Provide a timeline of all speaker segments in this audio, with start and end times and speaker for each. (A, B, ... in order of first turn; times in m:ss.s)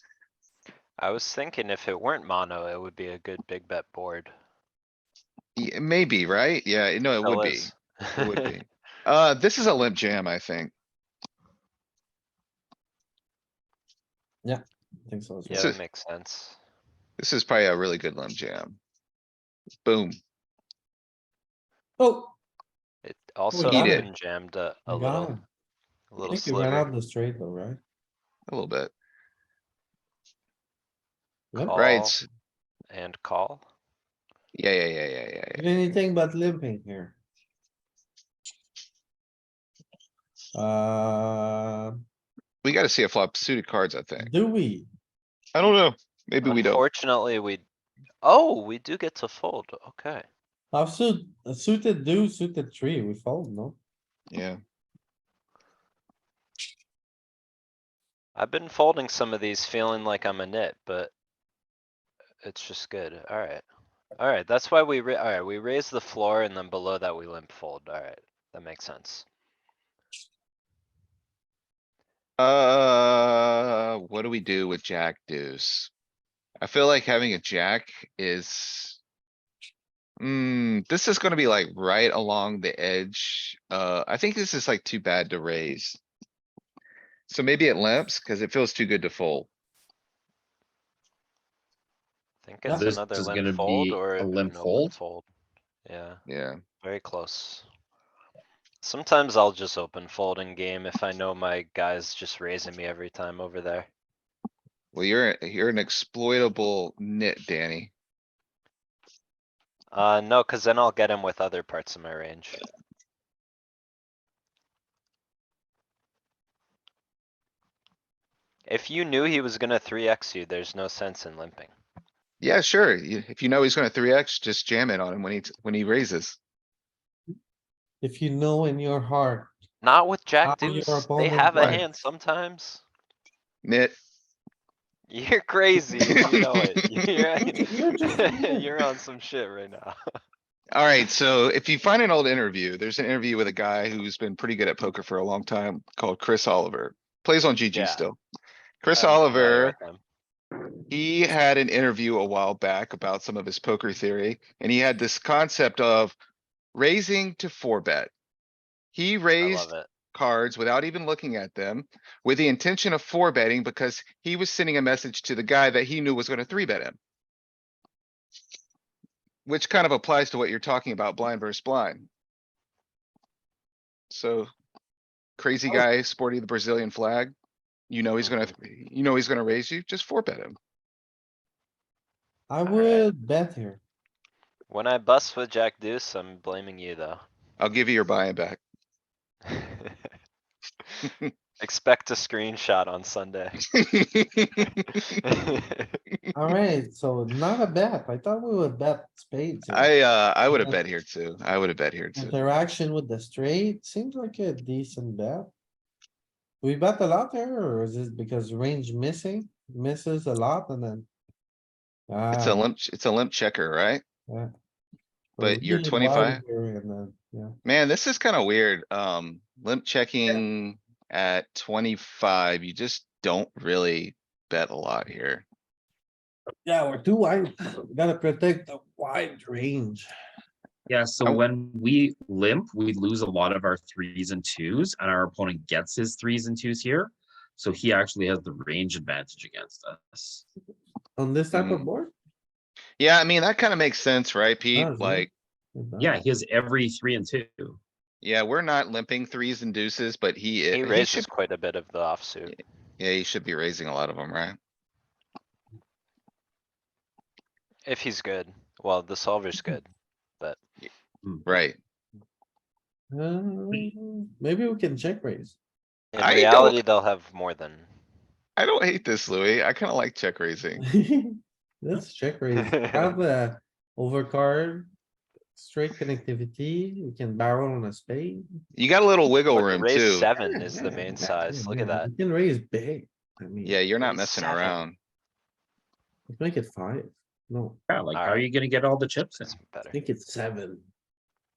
0:01.0-0:04.3 A
0:05.6-0:10.7 B
0:07.2-0:08.5 A
0:14.4-0:15.7 C
0:15.5-0:16.6 A
0:17.2-0:18.8 B
0:19.8-0:20.2 B
0:22.0-0:22.4 C
0:23.0-0:25.3 A
0:23.5-0:24.0 C
0:23.7-0:24.1 B
0:24.9-0:25.4 C
0:26.1-0:26.9 A
0:26.3-0:27.8 C
0:28.5-0:28.9 B
0:31.5-0:32.2 A
0:31.7-0:32.2 B
0:32.9-0:33.6 A
0:34.5-0:35.6 B
0:35.5-0:37.2 C
0:40.5-0:42.0 C
0:42.6-0:44.3 B
0:44.2-0:44.9 C
0:45.5-0:46.8 B
0:46.4-0:47.6 A
0:48.2-0:50.2 A
0:50.7-0:53.8 C
0:54.3-0:54.6 B
0:58.4-1:01.1 A
1:02.4-1:03.6 A
1:04.2-1:09.2 A
1:12.4-1:15.9 B
1:16.6-1:19.0 B
1:20.2-1:26.0 B
1:27.3-1:29.5 B
1:32.4-1:35.2 A
1:32.6-1:32.9 C
1:32.7-1:34.9 D
1:35.8-1:36.2 A
1:36.3-1:36.6 B
1:36.8-1:37.6 A
1:38.8-1:43.9 A
1:44.9-1:47.9 B
1:49.9-1:52.6 A
1:58.7-2:01.7 A
2:02.4-2:06.4 B
2:08.0-2:09.6 C
2:09.8-2:12.8 A
2:10.4-2:11.8 C
2:13.6-2:14.0 B
2:15.1-2:20.0 A
2:16.1-2:16.4 B
2:17.5-2:18.7 C
2:20.7-2:28.2 B
2:27.7-2:28.1 A
2:28.8-2:29.7 B
2:28.9-2:30.0 A
2:30.9-2:36.1 B
2:36.7-2:38.1 B
2:38.9-2:47.0 B
2:39.4-2:39.9 A
2:49.4-2:52.1 B
2:54.1-2:54.5 B
2:55.4-2:57.3 B
2:57.9-3:00.6 B
2:58.2-2:58.5 A
3:02.5-3:03.8 C
3:02.6-3:03.1 A
3:04.7-3:07.2 A
3:07.6-3:08.6 B
3:09.5-3:09.9 A
3:11.6-3:13.6 A
3:13.8-3:15.0 B
3:14.7-3:15.9 A
3:16.3-3:19.9 C
3:19.7-3:22.3 B
3:20.5-3:20.8 C
3:22.2-3:25.5 C
3:26.6-3:31.1 C
3:32.1-3:32.6 C
3:32.3-3:34.0 B
3:35.4-3:37.5 C
3:35.4-3:36.4 B
3:37.6-3:45.4 B
3:46.6-3:50.1 C
3:50.9-4:00.4 D
4:01.2-4:02.1 C
4:01.5-4:01.9 B
4:03.0-4:05.3 B
4:04.7-4:06.2 C
4:06.0-4:07.8 D
4:08.2-4:11.3 B
4:10.7-4:12.6 A
4:13.0-4:14.6 B
4:17.8-4:19.9 A
4:21.4-4:21.8 B
4:23.1-4:25.6 C
4:26.1-4:27.9 A
4:26.2-4:26.8 B
4:28.6-4:30.8 B
4:30.8-4:34.9 C
4:32.5-4:33.2 A
4:35.5-4:38.4 C
4:38.8-4:40.3 B
4:39.5-4:42.1 A
4:40.4-4:44.3 C
4:43.6-4:45.0 B
4:44.0-4:44.8 A
4:46.3-4:47.8 C
4:47.9-4:49.5 D
4:48.1-4:48.5 A
4:49.4-4:50.0 A
4:49.9-4:50.8 C